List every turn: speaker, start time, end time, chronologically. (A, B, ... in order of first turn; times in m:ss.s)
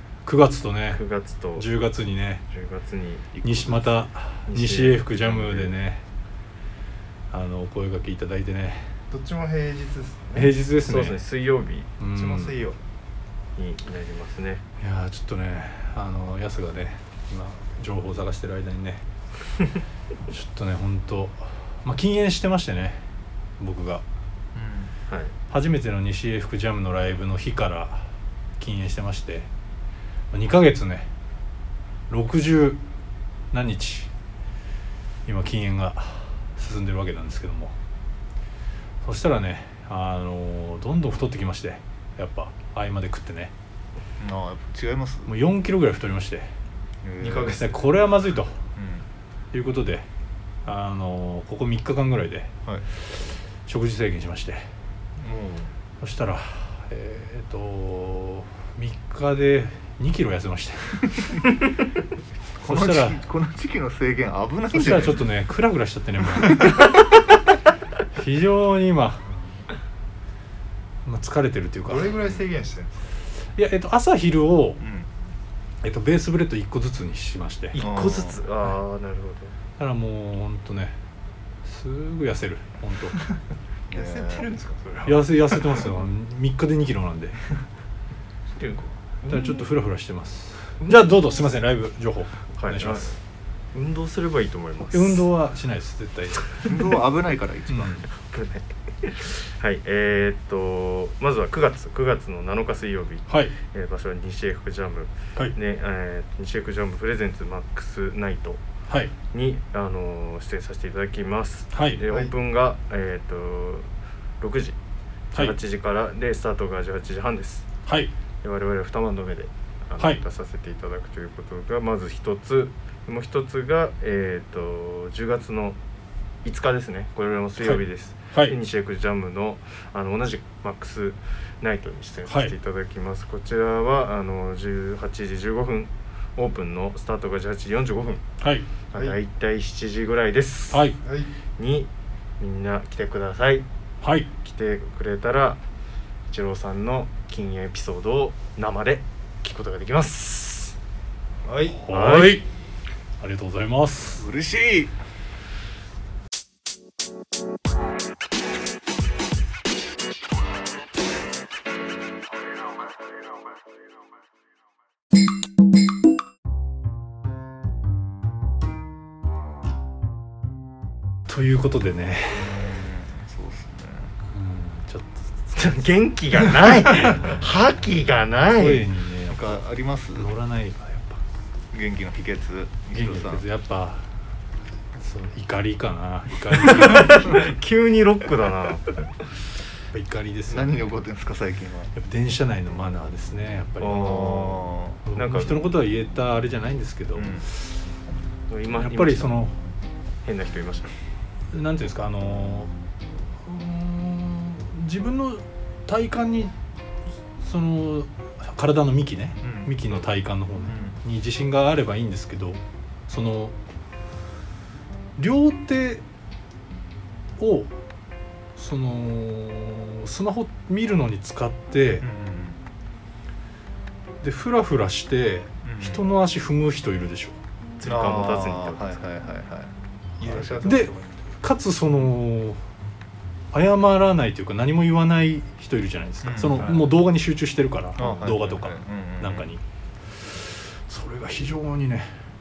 0:00.2-0:01.0 A
0:00.9-0:01.7 B
0:01.5-0:02.4 A
0:02.5-0:03.3 B
0:03.3-0:04.0 C
0:03.4-0:06.0 A
0:04.5-0:05.7 B
0:07.3-0:08.9 A
0:09.1-0:10.5 D
0:10.3-0:11.2 A
0:10.8-0:11.9 B
0:12.0-0:12.6 A
0:12.1-0:12.8 D
0:13.6-0:14.6 B
0:14.8-0:19.0 A
0:20.3-0:23.0 A
0:23.6-0:24.0 A
0:24.5-0:24.9 C
0:25.5-0:29.5 A
0:30.3-0:31.1 A
0:32.1-0:32.8 A
0:33.5-0:34.1 A
0:35.2-0:37.7 A
0:39.0-0:43.5 A
0:44.2-0:45.3 C
0:45.3-0:46.5 A
0:47.0-0:47.6 C
0:47.2-0:47.8 D
0:47.4-0:48.6 A
0:48.8-0:49.1 C
0:49.5-0:50.1 A
0:50.6-0:52.5 A
0:53.6-0:54.7 A
0:55.2-0:55.7 C
0:56.0-1:01.3 A
1:02.5-1:05.3 C
1:02.6-1:03.2 A
1:04.7-1:06.9 A
1:08.1-1:09.2 A
1:11.0-1:12.2 A
1:11.8-1:13.0 D
1:13.5-1:14.8 A
1:14.8-1:15.1 C
1:15.8-1:17.8 A
1:17.7-1:19.5 B
1:17.8-1:18.4 C
1:19.8-1:21.0 A
1:21.6-1:23.2 A
1:23.9-1:24.5 C
1:23.9-1:25.9 D
1:25.0-1:27.4 A
1:28.6-1:29.7 B
1:29.3-1:33.1 A
1:32.6-1:33.2 B
1:33.7-1:35.3 B
1:34.9-1:36.7 A
1:36.6-1:38.0 C
1:37.7-1:38.0 A
1:38.2-1:48.6 B
1:43.3-1:43.6 A
1:48.9-1:49.1 A
1:49.3-1:53.9 B
1:51.7-1:52.0 A
1:52.1-1:52.3 D
1:54.4-1:54.8 B
1:55.3-1:57.7 B
1:57.8-1:58.1 A
1:58.4-2:05.8 B
2:06.4-2:18.2 B
2:07.6-2:08.6 A
2:12.3-2:12.5 A
2:18.4-2:18.7 A
2:18.9-2:20.9 B
2:20.7-2:21.0 A
2:21.0-2:21.3 D
2:21.6-2:23.6 B
2:24.0-2:24.3 A
2:24.4-2:25.6 B
2:26.3-2:30.8 B
2:31.4-2:31.8 D
2:31.8-2:32.4 A
2:31.9-2:32.4 B
2:33.2-2:34.3 A
2:34.1-2:34.9 C
2:51.3-2:52.5 A
2:52.3-2:54.1 C
2:54.3-2:55.7 A
2:55.5-2:58.9 B
2:58.6-2:59.6 A
2:59.3-3:00.3 C
3:00.1-3:01.2 A
3:01.7-3:03.4 C
3:02.9-3:04.0 A
3:05.0-3:07.3 A
3:06.8-3:09.0 B
3:09.9-3:10.8 A
3:10.5-3:11.9 C
3:11.9-3:14.2 A
3:13.8-3:15.8 B
3:13.9-3:15.0 C
3:15.0-3:17.8 A
3:17.2-3:17.4 C
3:18.5-3:19.4 B
3:18.7-3:19.6 A
3:20.2-3:20.9 B
3:21.5-3:22.7 A
3:23.3-3:26.5 A
3:27.4-3:33.5 A
3:29.4-3:29.7 C
3:30.7-3:31.0 C
3:35.2-3:36.0 A
3:37.4-3:37.7 A
3:38.6-3:42.0 A
3:42.0-3:42.6 C
3:44.2-3:47.4 A
3:45.6-3:46.1 C
3:47.8-3:49.0 B
3:47.8-3:50.7 C
3:50.2-3:51.3 D
3:50.6-3:52.6 A
3:53.5-4:02.1 A
3:56.2-3:56.8 C
3:56.6-3:56.8 B
3:58.0-3:59.5 C